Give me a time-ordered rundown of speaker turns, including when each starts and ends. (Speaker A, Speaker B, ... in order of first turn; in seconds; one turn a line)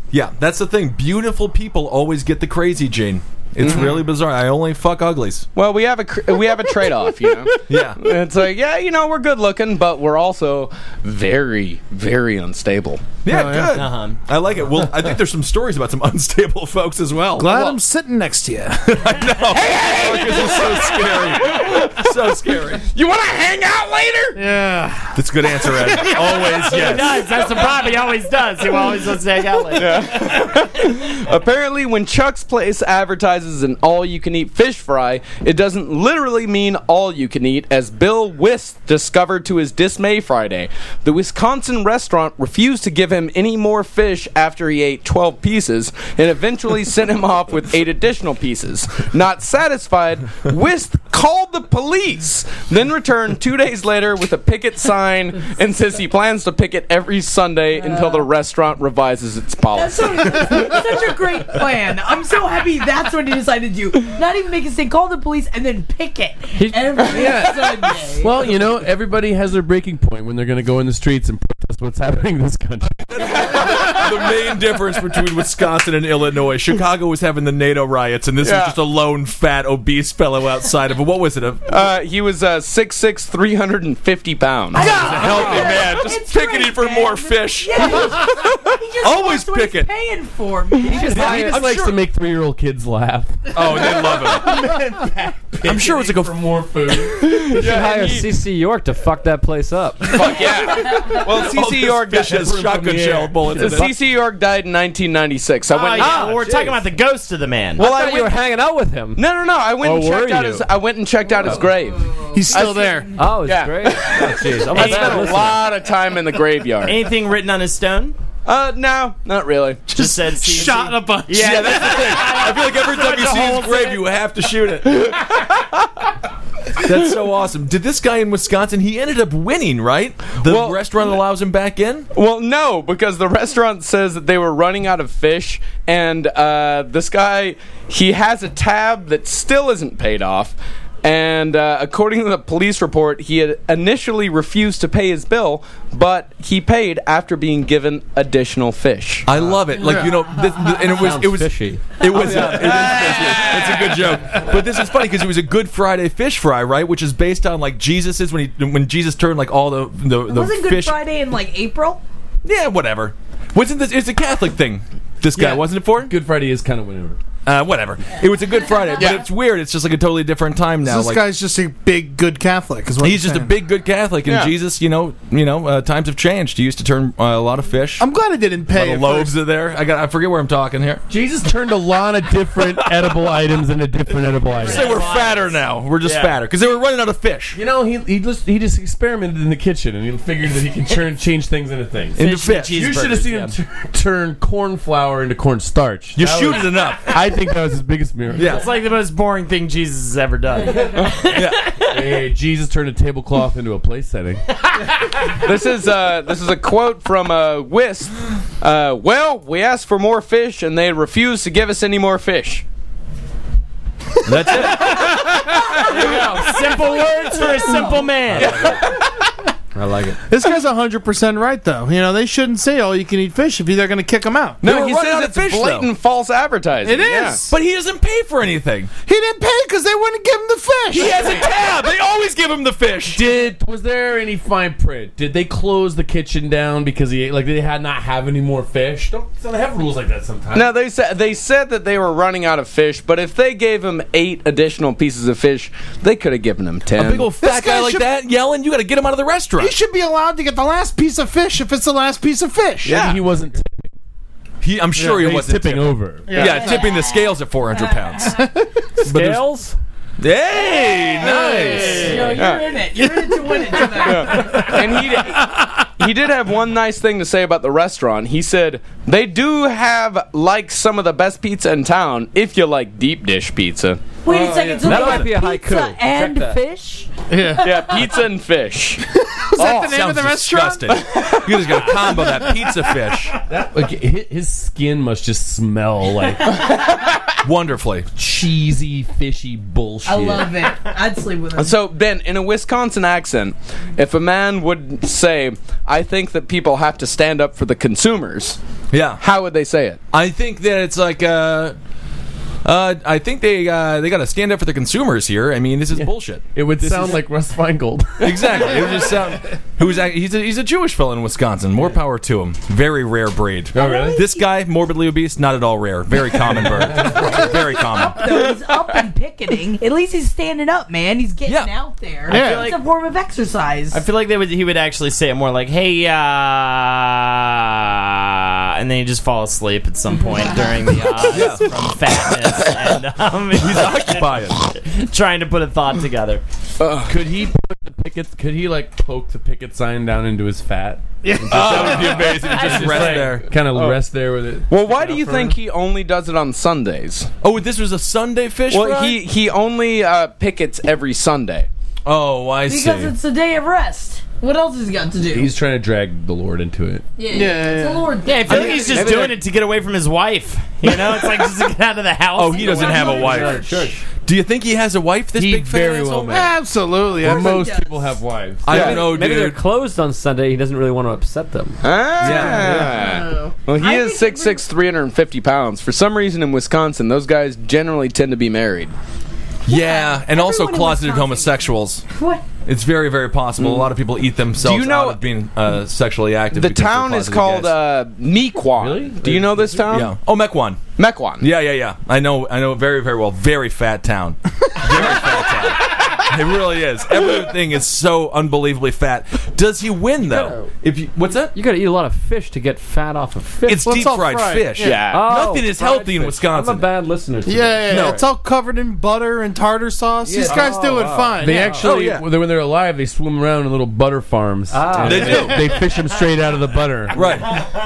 Speaker A: 0.1-5.5
Speaker B: 3.6-4.0
Speaker B: 5.5-13.2
Speaker A: 7.7-8.0
Speaker A: 13.2-17.7
Speaker C: 13.3-13.8
Speaker D: 13.7-14.2
Speaker C: 17.4-19.4
Speaker A: 18.9-22.8
Speaker B: 19.5-22.1
Speaker B: 22.9-24.4
Speaker C: 24.3-25.1
Speaker A: 25.1-27.3
Speaker C: 25.7-26.5
Speaker D: 26.6-30.1
Speaker B: 29.7-60.8
Speaker E: 57.8-58.3
Speaker E: 59.7-68.5
Speaker F: 66.5-67.1
Speaker B: 67.2-67.4
Speaker G: 68.2-73.2
Speaker A: 73.0-81.7
Speaker B: 78.4-78.8
Speaker B: 81.7-85.5
Speaker A: 84.7-88.5
Speaker E: 84.7-91.2
Speaker A: 89.0-89.9
Speaker G: 90.9-97.5
Speaker F: 90.9-91.6
Speaker A: 91.2-92.0
Speaker A: 93.5-94.6
Speaker A: 95.6-96.5
Speaker B: 97.2-98.3
Speaker F: 97.5-100.4
Speaker B: 100.1-106.3
Speaker A: 101.2-103.9
Speaker G: 102.3-103.9
Speaker D: 105.7-107.8
Speaker F: 106.0-106.8
Speaker F: 107.8-109.2
Speaker B: 107.8-108.4
Speaker B: 109.1-117.0
Speaker F: 109.8-110.7
Speaker C: 112.3-113.1
Speaker F: 113.2-115.7
Speaker D: 114.8-115.2
Speaker D: 116.8-118.2
Speaker B: 118.4-120.1
Speaker D: 119.9-124.0
Speaker C: 120.2-122.2
Speaker A: 121.3-125.3
Speaker A: 126.8-132.1
Speaker B: 130.4-130.9
Speaker B: 132.1-149.3
Speaker A: 149.2-161.0
Speaker C: 149.8-150.2
Speaker F: 150.8-152.9
Speaker B: 153.0-153.6
Speaker E: 160.3-162.0
Speaker A: 162.4-166.1
Speaker G: 165.3-167.2
Speaker A: 167.4-171.2
Speaker B: 168.9-169.3
Speaker C: 170.8-173.5
Speaker A: 173.0-178.1
Speaker B: 174.2-174.5
Speaker C: 178.0-179.3
Speaker A: 178.7-181.0
Speaker G: 181.1-185.1
Speaker A: 182.6-183.2
Speaker D: 184.5-186.4
Speaker A: 184.6-187.6
Speaker G: 187.5-198.7
Speaker A: 192.2-192.9
Speaker D: 192.2-193.5
Speaker A: 196.1-197.2
Speaker A: 198.3-198.7
Speaker D: 198.4-202.2
Speaker A: 201.3-201.6
Speaker G: 201.9-204.4
Speaker B: 205.4-212.6
Speaker A: 214.2-215.2
Speaker C: 214.5-215.4
Speaker D: 215.7-218.7
Speaker B: 218.3-218.7
Speaker F: 218.4-218.8
Speaker F: 219.7-220.2
Speaker C: 220.3-224.6
Speaker B: 224.6-227.4
Speaker A: 224.6-225.9
Speaker C: 226.8-227.5
Speaker A: 227.5-228.9
Speaker C: 229.0-231.3
Speaker A: 230.9-233.2
Speaker G: 233.1-240.7
Speaker B: 240.5-247.3
Speaker A: 246.9-249.7
Speaker C: 247.4-248.1
Speaker C: 249.6-253.0
Speaker A: 252.8-253.2
Speaker G: 252.9-253.9
Speaker A: 254.6-258.4
Speaker C: 254.9-255.2
Speaker G: 255.1-256.4
Speaker C: 256.2-256.8
Speaker E: 256.4-258.1
Speaker C: 258.3-258.7
Speaker F: 259.0-259.8
Speaker A: 259.0-259.4
Speaker A: 260.2-262.1
Speaker C: 261.2-262.1
Speaker E: 261.5-264.8
Speaker G: 261.5-262.4
Speaker B: 262.3-262.8
Speaker C: 262.9-265.7
Speaker B: 264.0-274.1
Speaker E: 274.2-278.1
Speaker C: 274.3-274.8
Speaker G: 274.3-275.2
Speaker F: 274.8-276.6
Speaker C: 277.3-277.9
Speaker B: 277.6-279.0
Speaker C: 279.4-281.0
Speaker B: 279.6-279.9
Speaker A: 279.7-283.4
Speaker B: 280.9-281.8
Speaker C: 282.1-282.6
Speaker G: 283.4-286.7
Speaker B: 286.9-287.3
Speaker A: 287.4-288.1
Speaker G: 288.1-290.6
Speaker E: 290.1-291.8
Speaker B: 291.6-298.6
Speaker A: 298.9-299.2
Speaker B: 299.2-300.0
Speaker A: 300.1-301.8
Speaker A: 302.6-307.2
Speaker G: 305.9-308.8
Speaker A: 308.2-318.3
Speaker G: 313.7-314.2
Speaker E: 313.7-314.5
Speaker G: 316.6-317.2
Speaker E: 317.2-324.0
Speaker A: 321.4-321.7
Speaker C: 322.3-322.7
Speaker D: 322.3-322.8
Speaker D: 323.9-336.4
Speaker A: 331.3-331.8
Speaker A: 333.5-334.6
Speaker B: 336.8-337.2
Speaker G: 337.1-345.6
Speaker C: 341.2-342.5
Speaker A: 341.5-343.5
Speaker B: 344.7-347.3
Speaker A: 347.4-349.2
Speaker B: 348.7-351.7
Speaker A: 352.0-353.1
Speaker E: 352.7-355.5
Speaker G: 355.3-357.0
Speaker E: 357.2-359.1
Speaker C: 357.3-359.2
Speaker D: 358.2-363.4
Speaker F: 358.9-359.4
Speaker A: 362.3-363.7
Speaker E: 362.5-363.9
Speaker F: 363.1-364.0
Speaker A: 364.2-366.5
Speaker G: 365.3-366.5
Speaker C: 366.2-367.7
Speaker G: 367.2-368.8
Speaker E: 367.2-368.2
Speaker A: 368.6-369.6
Speaker F: 368.7-371.8
Speaker B: 368.7-369.1
Speaker B: 371.8-378.9
Speaker A: 372.2-372.9
Speaker C: 372.6-372.9
Speaker E: 372.9-374.6
Speaker A: 379.7-382.0
Speaker E: 379.7-382.4
Speaker A: 382.6-387.8
Speaker B: 383.6-383.9
Speaker B: 384.6-385.2
Speaker B: 386.5-390.1
Speaker G: 388.7-389.9
Speaker A: 389.9-390.8
Speaker B: 391.0-391.5
Speaker A: 391.4-401.6
Speaker F: 400.2-400.7
Speaker F: 401.5-404.1
Speaker A: 403.6-406.9
Speaker C: 403.7-405.0
Speaker B: 404.8-405.2
Speaker F: 405.1-408.2
Speaker C: 407.4-411.7
Speaker A: 407.9-408.2
Speaker F: 410.3-411.9
Speaker G: 410.4-410.7
Speaker G: 411.4-417.2
Speaker A: 411.8-412.2
Speaker F: 414.7-415.7
Speaker A: 415.0-415.7
Speaker A: 417.1-417.5